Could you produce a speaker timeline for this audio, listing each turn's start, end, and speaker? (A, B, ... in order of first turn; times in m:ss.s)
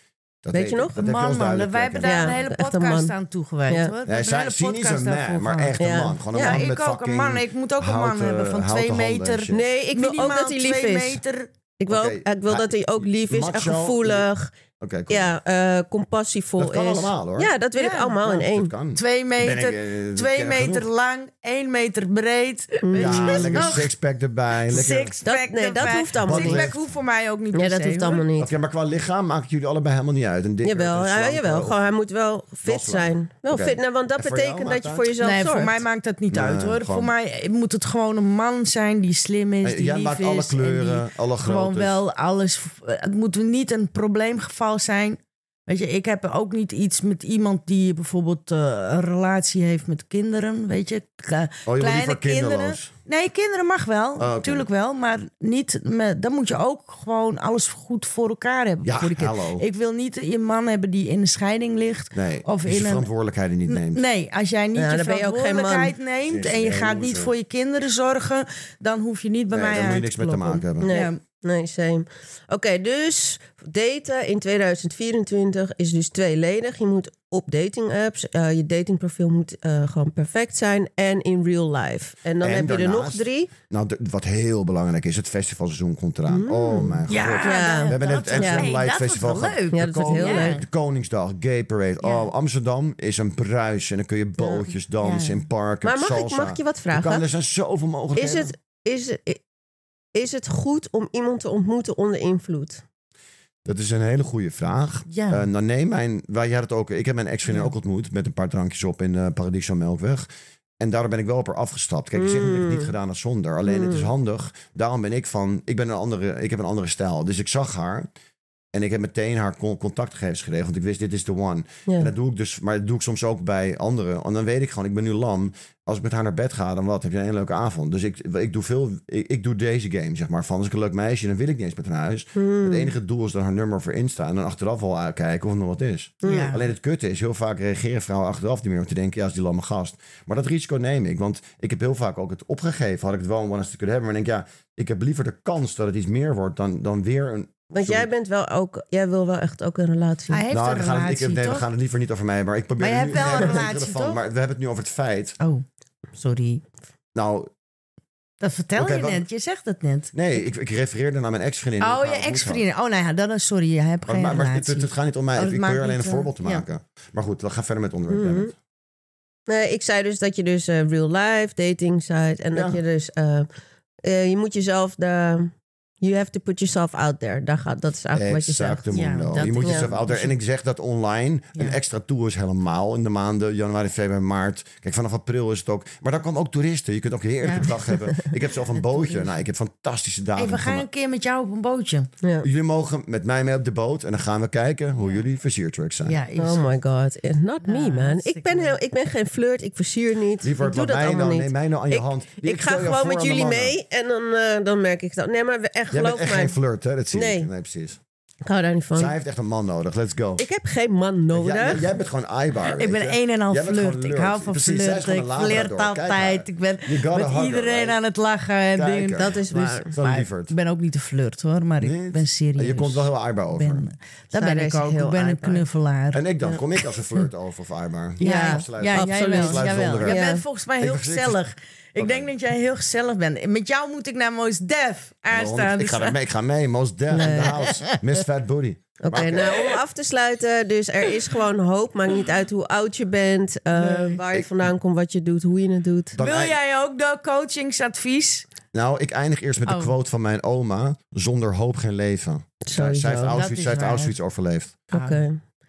0:00.4-0:02.4 A
0:00.5-0:01.0 B
0:01.0-0:05.8 C
0:02.0-0:03.1 B
0:03.7-0:03.9 B
0:04.1-0:09.6 A
0:05.8-0:06.6 B
0:06.3-0:11.5 C
0:09.5-0:11.2 B
0:11.8-0:14.5 B
0:11.9-0:14.3 A
0:14.8-0:15.4 A
0:15.1-0:18.7 B
0:16.6-0:17.5 A
0:17.8-0:18.4 C
0:18.3-0:20.9 A
0:19.0-0:23.9 C
0:22.8-0:23.8 B
0:23.0-0:25.2 A
0:24.7-0:28.2 C
0:25.2-0:26.7 B
0:26.3-0:26.8 A
0:27.5-0:28.5 B
0:28.4-0:31.8 A
0:30.6-0:35.8 B
0:32.6-0:35.1 A
0:35.2-1:03.1 C
0:36.3-0:37.1 A
0:39.6-0:42.0 A
0:51.7-0:52.9 A
0:54.2-0:54.7 A
0:58.8-0:59.6 A
1:02.1-1:04.0 A
1:03.7-1:11.2 C
1:04.8-1:06.0 B
1:06.3-1:07.3 A
1:09.5-1:10.9 A
1:10.8-1:23.5 B
1:22.4-1:38.5 A
1:26.3-1:28.7 B
1:27.1-1:30.6 C
1:29.7-1:30.6 B
1:34.4-1:34.6 B
1:35.0-1:35.4 C
1:35.8-1:37.2 B
1:38.2-1:39.4 B
1:40.2-1:42.8 B
1:43.6-1:50.3 A
1:45.1-1:45.5 C
1:50.8-1:58.1 A
1:52.2-1:52.9 B
1:53.6-1:54.1 B
1:58.7-2:28.1 A
2:12.4-2:12.9 B
2:16.2-2:16.5 B
2:16.2-2:16.6 C
2:27.8-2:30.4 B
2:30.3-2:31.7 C
2:30.5-2:35.4 A
2:32.8-2:34.2 C
2:35.4-2:36.6 C
2:37.1-2:37.5 A
2:38.4-2:40.1 C
2:38.8-2:39.2 A
2:40.1-2:42.6 A
2:41.8-2:46.7 C
2:44.1-2:48.5 A
2:48.1-2:48.5 B
2:49.5-2:53.5 B
2:52.5-2:52.8 A
2:54.0-2:58.9 B
2:58.1-3:10.8 A
2:58.9-3:00.4 C
3:07.4-3:07.7 C
3:10.4-3:12.1 C
3:12.2-3:12.5 B
3:12.4-3:16.2 A
3:16.1-3:16.8 C
3:16.4-3:26.6 B
3:17.6-3:18.8 C
3:20.4-3:23.8 A
3:25.9-3:28.0 A
3:27.1-3:27.5 B
3:28.4-3:29.2 B
3:29.0-3:30.5 A
3:30.4-3:31.9 B
3:31.3-3:38.0 A
3:32.7-3:46.2 C
3:38.8-3:40.5 A
3:39.2-3:39.9 B
3:41.8-3:43.8 A
3:44.3-3:45.6 B
3:46.1-3:50.2 A
3:48.2-3:56.2 C
3:48.2-3:50.4 B
3:50.8-3:51.4 A
3:52.0-3:52.3 A
3:55.3-3:59.5 A
3:57.1-3:57.6 B
3:57.1-3:58.2 C
3:59.0-4:06.2 B
3:59.2-3:59.8 C
4:03.7-4:04.2 C
4:06.1-4:06.6 A
4:06.2-4:08.5 C
4:08.7-4:14.8 A
4:09.6-4:09.9 C
4:12.6-4:13.4 B
4:13.3-4:14.2 C
4:14.9-4:15.4 B
4:14.9-4:15.2 C